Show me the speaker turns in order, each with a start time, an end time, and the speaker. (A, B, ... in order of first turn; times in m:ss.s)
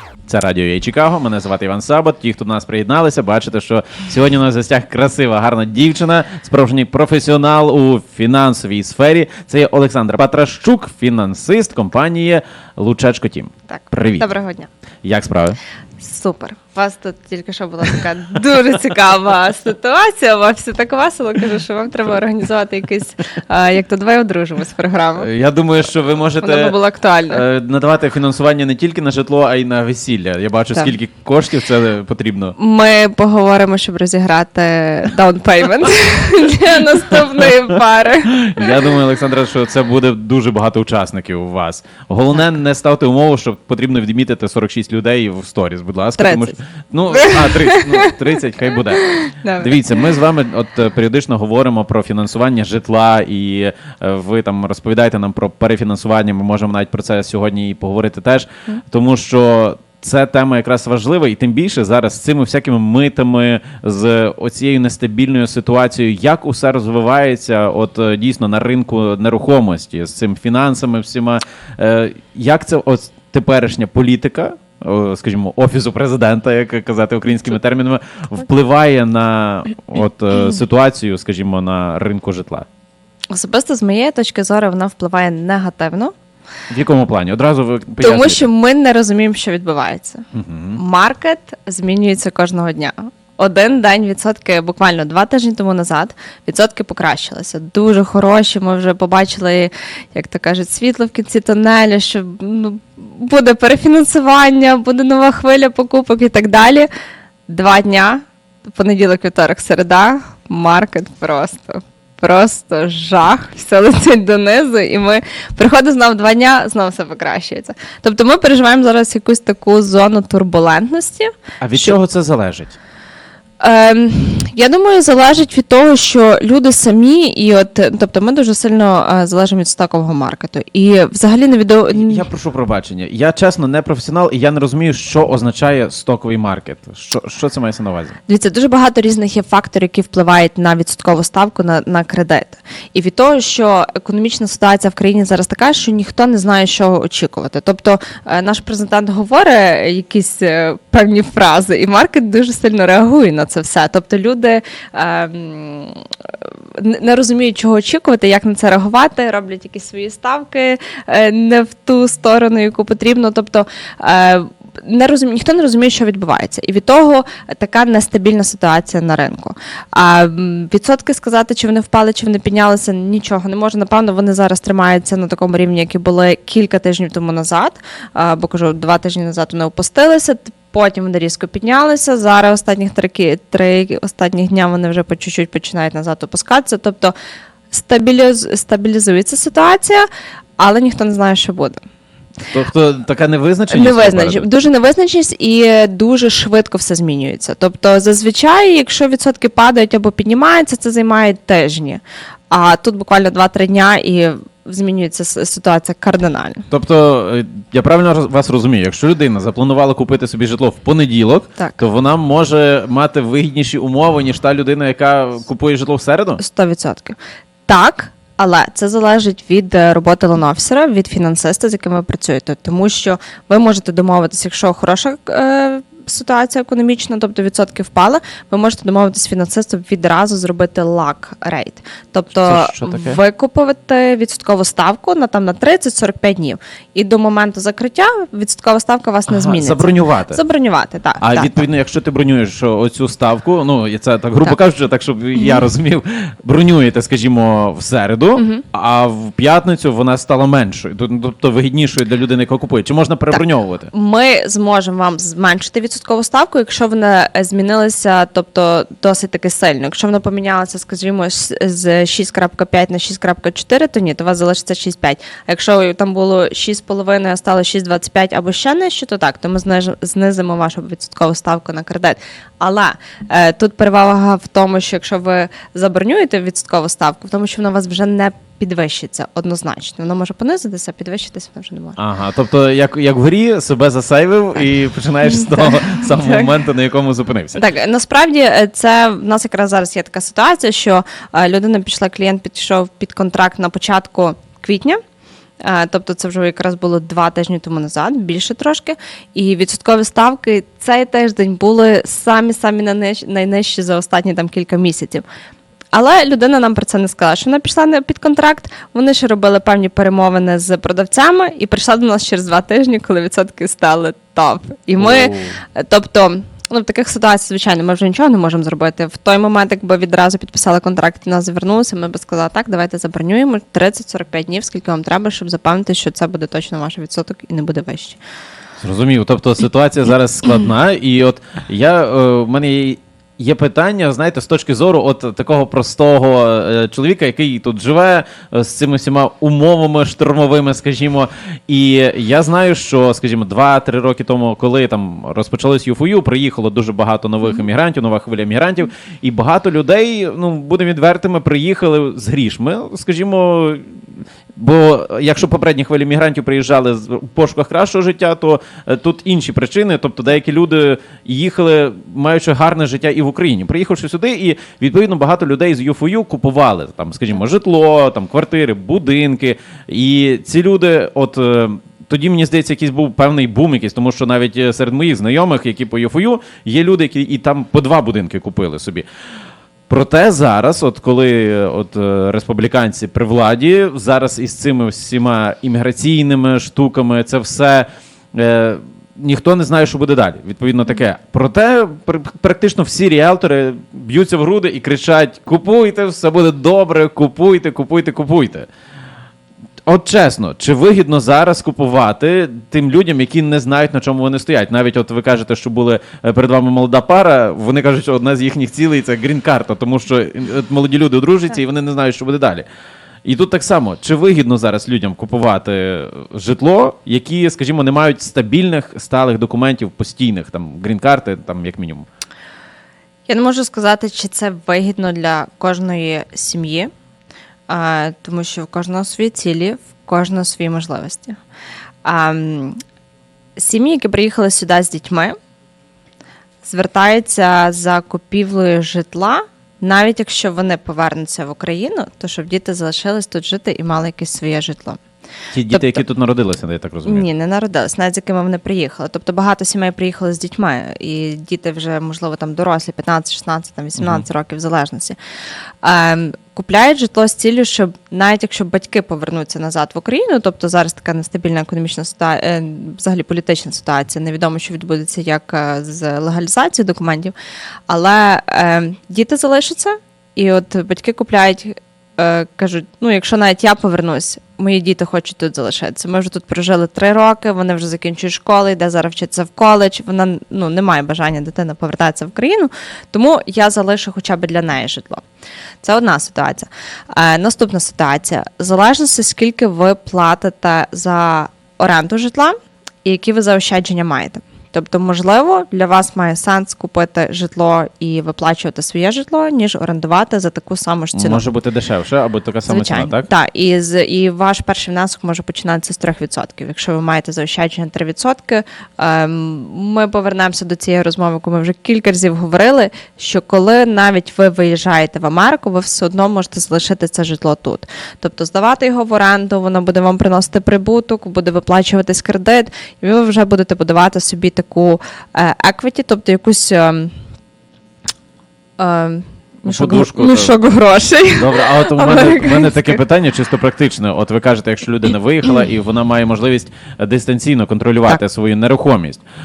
0:00.3-0:14.3 A
0:13.7-0:14.7 B
0:15.0-0:15.6 A
0:16.0-0:25.3 B
0:25.2-0:26.8 A
0:26.4-0:27.4 B
0:27.3-0:32.5 A
0:32.6-0:38.7 B
0:38.2-1:22.6 A
0:46.2-0:46.6 B
0:47.1-0:48.1 B
0:49.0-0:50.0 B
1:23.3-1:26.1 B
1:26.7-1:28.5 A
1:28.0-1:46.9 B
1:30.3-1:30.8 A
1:47.5-2:02.0 B
2:01.6-2:02.8 A
2:03.6-2:12.3 B
2:11.9-2:18.2 A
2:18.3-2:36.1 B
2:36.7-3:07.1 B
3:07.7-3:10.1 B
3:10.6-3:11.8 B
3:12.5-3:14.5 A
3:13.7-3:26.7 B
3:26.7-3:36.4 A
3:36.4-4:01.7 B
3:52.4-3:53.2 A
3:59.3-4:00.4 A
4:01.2-4:13.9 A
4:05.4-4:05.6 B
4:08.3-4:08.6 B
4:13.3-4:42.0 B
4:42.0-4:47.6 A
4:45.2-4:46.5 B
4:47.5-4:55.0 B
4:55.6-5:05.2 B
5:05.9-5:28.2 B
5:15.0-5:15.6 A
5:28.8-5:53.8 A
5:54.6-6:19.0 A
6:19.9-6:38.7 A
6:39.8-6:52.6 A
6:53.2-7:02.0 A
7:03.3-7:06.9 B
7:07.7-7:11.4 B
7:12.0-7:12.8 B
7:13.6-7:15.4 B
7:16.6-7:25.0 B
7:25.5-7:27.3 A
7:25.7-7:26.0 B
7:27.0-7:35.2 B
7:34.0-7:34.2 A
7:35.8-7:47.3 B
7:47.9-8:05.2 B
8:05.8-8:21.4 B
8:21.1-8:23.3 A
8:22.7-8:47.1 B
8:48.8-8:53.0 B
8:49.6-8:50.5 A
8:51.3-8:59.2 A